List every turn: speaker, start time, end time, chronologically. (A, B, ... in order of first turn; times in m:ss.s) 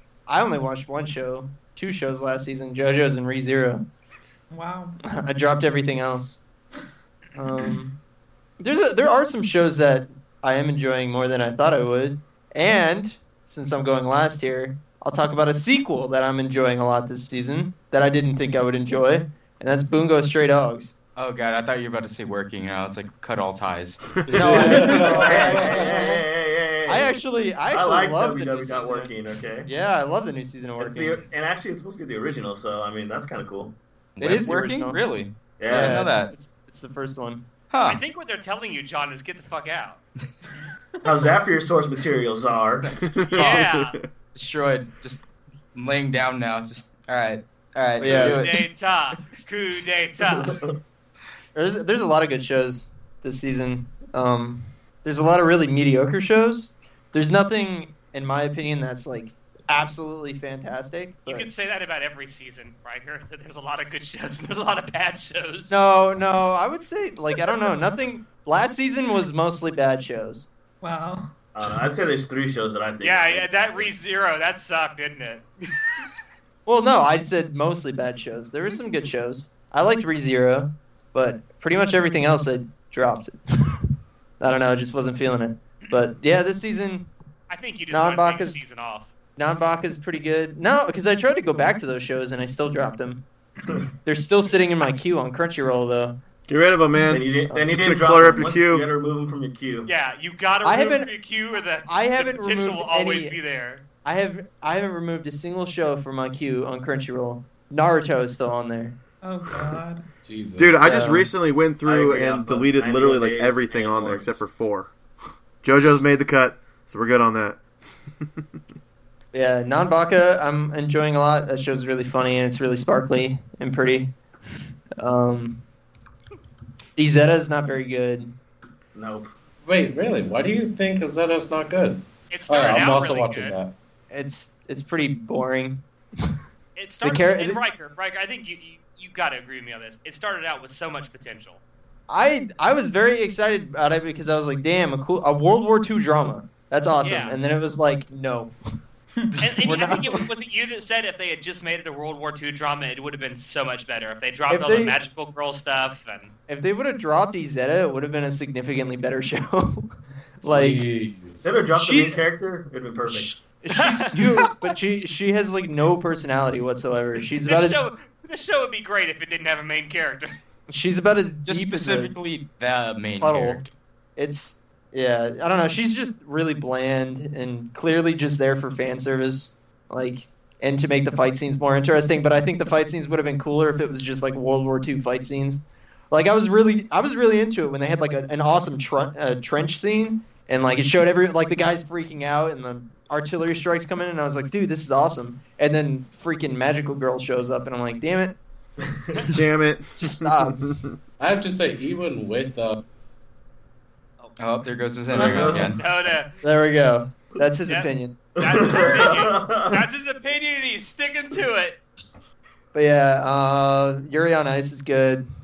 0:00.3-0:03.8 A
0:04.5-0:05.0 B
0:05.0-0:06.4 A
0:07.4-0:07.9 A
0:08.6-0:20.9 A
0:21.2-0:25.0 C
0:24.3-0:26.1 D
0:24.4-0:26.2 A
0:25.0-0:29.7 E
0:26.9-0:29.1 A
0:29.7-0:31.2 A
0:30.8-0:33.8 E
0:34.2-0:36.3 C
0:34.2-0:35.0 A
0:35.6-0:36.1 E
0:35.6-0:37.5 A
0:37.7-0:38.0 C
0:37.8-0:40.0 F
0:41.0-0:43.0 E
0:43.0-0:44.0 G
0:43.3-0:43.7 C
0:43.4-0:44.0 F
0:44.4-0:45.2 C
0:45.8-0:48.7 C
0:48.0-0:48.4 A
0:48.1-0:50.6 F
0:50.3-0:50.8 E
0:51.6-1:01.5 A
1:01.3-1:05.7 F
1:05.7-1:10.5 A
1:10.8-1:11.3 B
1:11.6-1:13.9 E
1:13.0-1:16.0 F
1:16.7-1:23.8 A
1:24.4-1:27.1 A
1:27.5-1:29.1 F
1:27.9-1:28.6 A
1:29.4-1:33.2 A
1:34.0-1:36.2 A
1:36.5-1:38.9 G
1:37.1-1:39.9 E
1:37.5-1:37.8 A
1:39.9-1:43.8 F
1:40.6-1:41.1 A
1:41.9-1:43.4 A
1:44.0-1:49.0 A
1:49.2-1:50.1 B
1:50.3-1:50.8 D
1:50.6-1:54.9 G
1:50.8-1:51.3 A
1:51.8-1:54.3 E
1:55.6-1:57.6 G
1:59.3-2:04.1 A
2:05.0-2:05.6 A
2:07.0-2:08.4 A
2:09.0-2:09.3 E
2:09.6-2:13.8 D
2:12.3-2:13.5 F
2:14.1-2:15.8 A
2:16.8-2:21.6 F
2:17.0-2:17.6 A
2:22.1-2:28.5 A
2:27.0-2:27.4 F
2:29.4-2:36.3 F
2:29.6-2:30.3 A
2:34.5-2:35.0 A
2:36.5-2:39.9 A
2:40.4-2:40.9 A
2:40.5-2:41.5 D
2:41.4-2:43.4 E
2:41.7-2:42.2 A
2:43.1-2:44.7 F
2:43.7-2:47.8 A
2:47.4-2:50.3 F
2:50.7-2:52.2 A
2:51.5-2:53.7 C
2:53.2-3:18.4 A
3:18.8-3:19.3 E
3:19.3-3:21.0 G
3:20.0-3:20.7 A
3:21.2-3:22.8 D
3:24.4-3:25.8 C
3:25.1-3:25.8 E
3:25.2-3:26.3 F
3:25.2-3:25.7 B
3:26.4-3:28.3 A
3:27.6-3:31.8 F
3:28.4-3:29.8 E
3:32.7-3:35.2 A